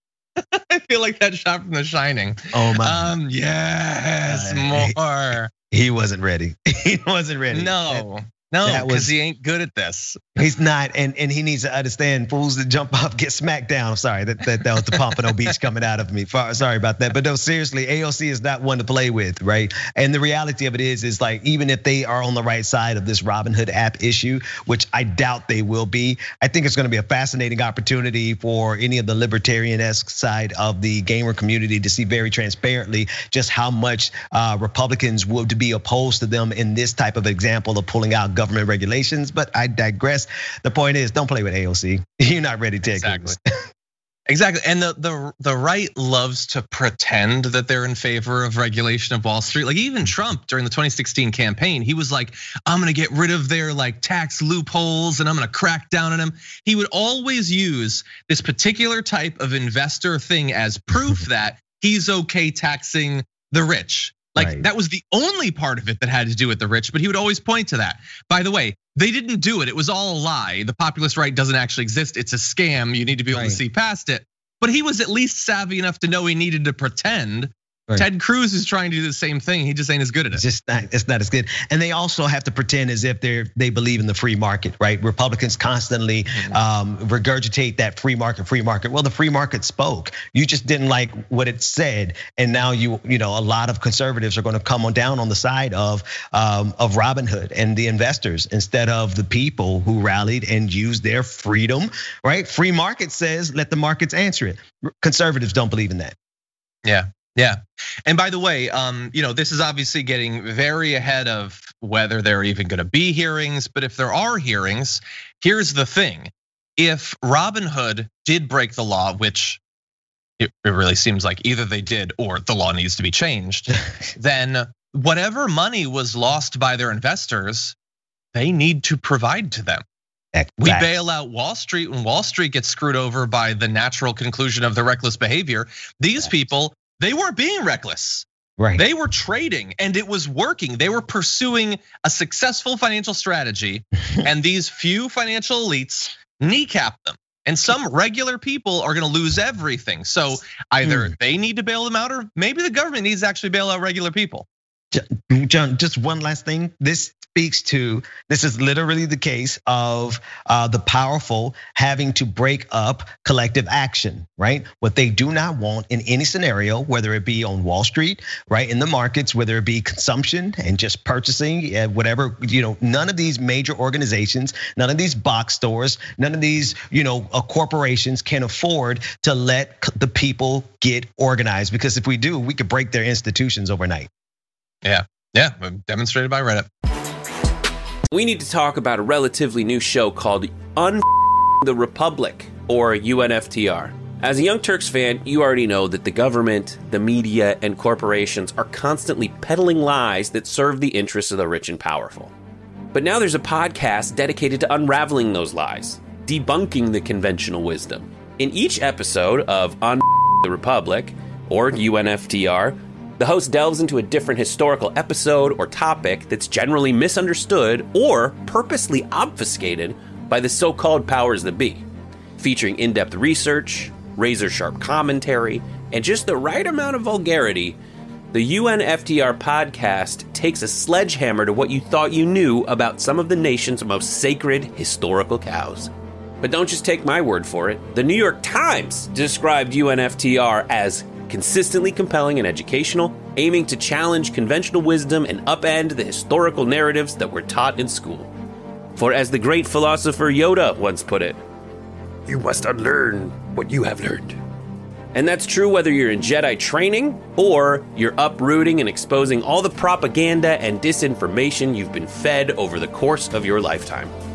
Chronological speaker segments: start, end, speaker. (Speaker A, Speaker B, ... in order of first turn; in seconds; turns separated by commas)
Speaker A: 0.4-5.5, Speaker B: 2.5-3.1, Speaker B: 4.2-4.9, Speaker B: 5.7-8.1, Speaker A: 7.5-10.3, Speaker B: 8.6-9.1, Speaker B: 10.3-43.4, Speaker A: 42.8-43.4, Speaker A: 44.3-80.4, Speaker B: 64.3-64.7, Speaker B: 73.3-73.6, Speaker B: 80.3-106.1, Speaker A: 86.3-86.6, Speaker A: 106.8-119.6, Speaker A: 120.4-127.7, Speaker A: 128.3-129.8, Speaker B: 130.3-130.9, Speaker A: 130.6-154.4, Speaker B: 150.8-151.1, Speaker B: 154.9-184.1, Speaker A: 184.8-186.7, Speaker C: 188.1-202.3, Speaker C: 202.9-221.8, Speaker C: 222.4-227.8, Speaker C: 228.3-235.9, Speaker C: 236.4-248.3, Speaker C: 248.9-251.4, Speaker C: 252.3-254.4, Speaker C: 255.1-264.1